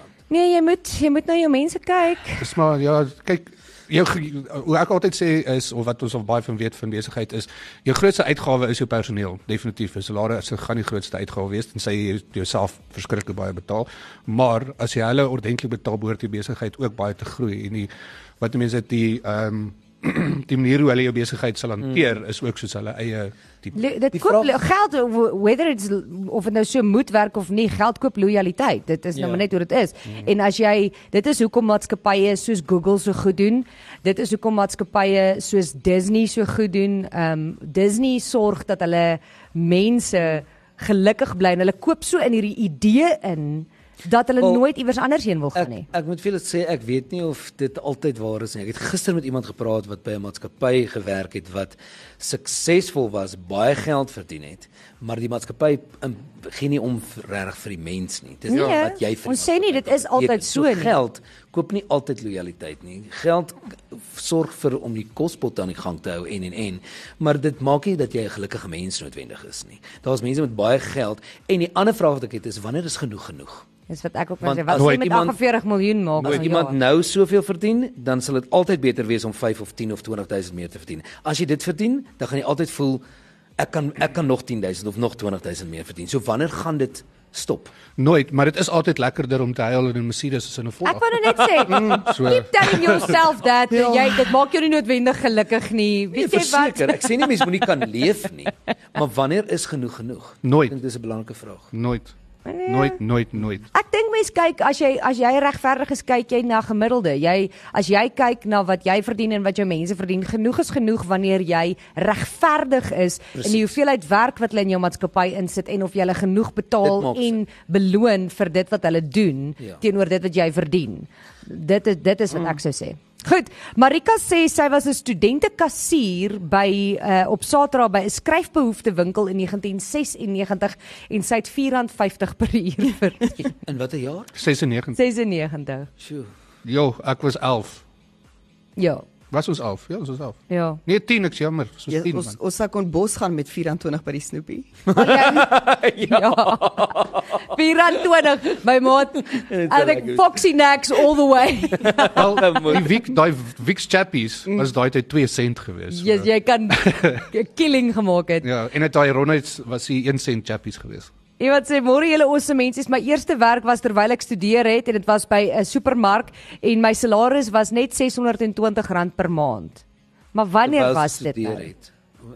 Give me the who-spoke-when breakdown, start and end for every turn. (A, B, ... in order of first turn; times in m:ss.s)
0:00.3-0:02.5 A
0:02.4-0:23.8 B
0:21.8-0:22.1 C
0:23.8-0:45.9 A
0:24.1-0:24.5 C
0:29.2-0:29.4 C
0:45.6-1:13.6 C
0:58.5-1:00.9 A
1:13.9-1:16.8 A
1:14.4-1:15.4 C
1:14.8-1:15.0 B
1:16.2-1:16.5 B
1:16.2-1:23.0 C
1:23.6-1:27.7 C
1:28.0-1:33.2 B
1:30.8-1:37.3 A
1:31.7-1:32.1 D
1:33.7-1:34.2 D
1:36.1-1:41.7 C
1:40.4-1:40.8 B
1:41.7-1:42.1 B
1:42.4-1:43.0 A
1:42.7-1:43.7 B
1:43.7-2:13.5 A
1:56.8-1:57.3 C
2:13.6-2:14.3 C
2:14.4-2:15.0 B
2:15.0-2:15.9 A
2:16.0-2:16.3 C
2:16.6-2:17.8 B
2:18.8-2:19.0 A
2:19.3-2:22.4 B
2:20.5-2:20.8 A
2:21.9-2:24.8 D
2:24.9-2:27.2 C
2:24.9-2:32.6 A
2:29.3-2:30.4 C
2:31.8-2:32.9 C
2:32.1-2:37.2 B
2:35.9-2:38.5 A
2:38.4-2:41.1 B
2:41.4-2:49.8 A
2:50.3-2:51.7 A
2:50.6-2:51.9 C